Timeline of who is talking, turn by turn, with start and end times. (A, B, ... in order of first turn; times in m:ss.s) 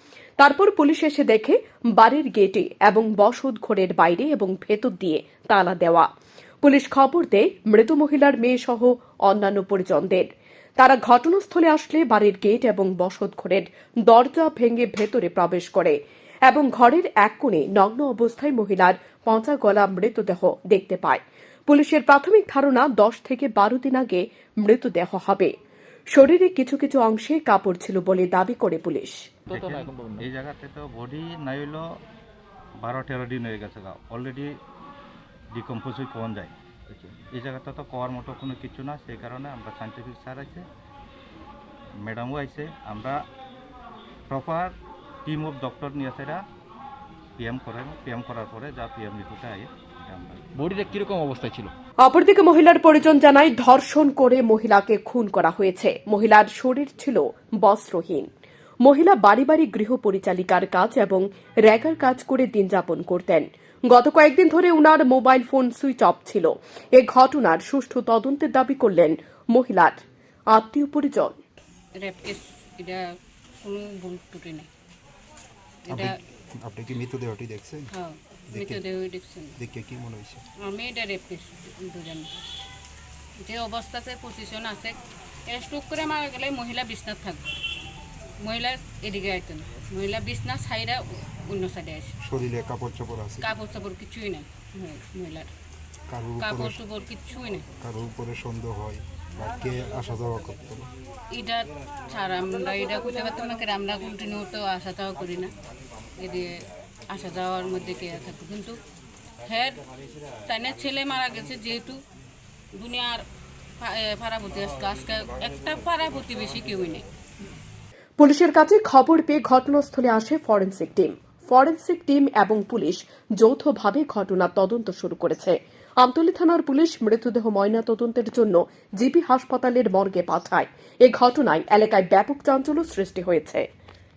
0:00.4-0:06.1 A
0:06.6-0:25.5 A
0:26.1-0:29.2 A
0:29.5-0:30.3 B
0:29.5-0:31.8 C
0:32.8-0:34.5 C
0:35.5-0:36.5 C
0:36.9-0:37.2 B
0:37.2-0:40.6 C
0:42.0-0:43.2 C
0:44.3-0:44.7 C
0:45.2-0:46.4 C
0:47.4-0:50.4 C
0:50.5-0:51.7 B
0:52.0-0:58.3 A
0:58.8-1:11.4 A
1:12.0-1:13.1 D
1:13.6-1:14.7 D
1:15.8-1:16.2 D
1:15.9-1:17.9 E
1:17.9-1:19.6 D
1:18.5-1:18.8 E
1:19.6-1:20.4 E
1:20.6-1:22.4 D
1:23.4-1:27.5 D
1:28.4-1:32.1 D
1:32.2-1:33.5 E
1:33.4-1:35.5 D
1:36.1-1:36.8 E
1:36.4-1:37.6 D
1:37.8-1:40.9 E
1:41.3-1:45.5 D
1:46.2-1:48.8 D
1:49.4-1:49.8 D
1:50.4-1:52.0 D
1:52.7-1:53.2 D
1:53.8-1:57.1 D
1:58.2-2:13.6 A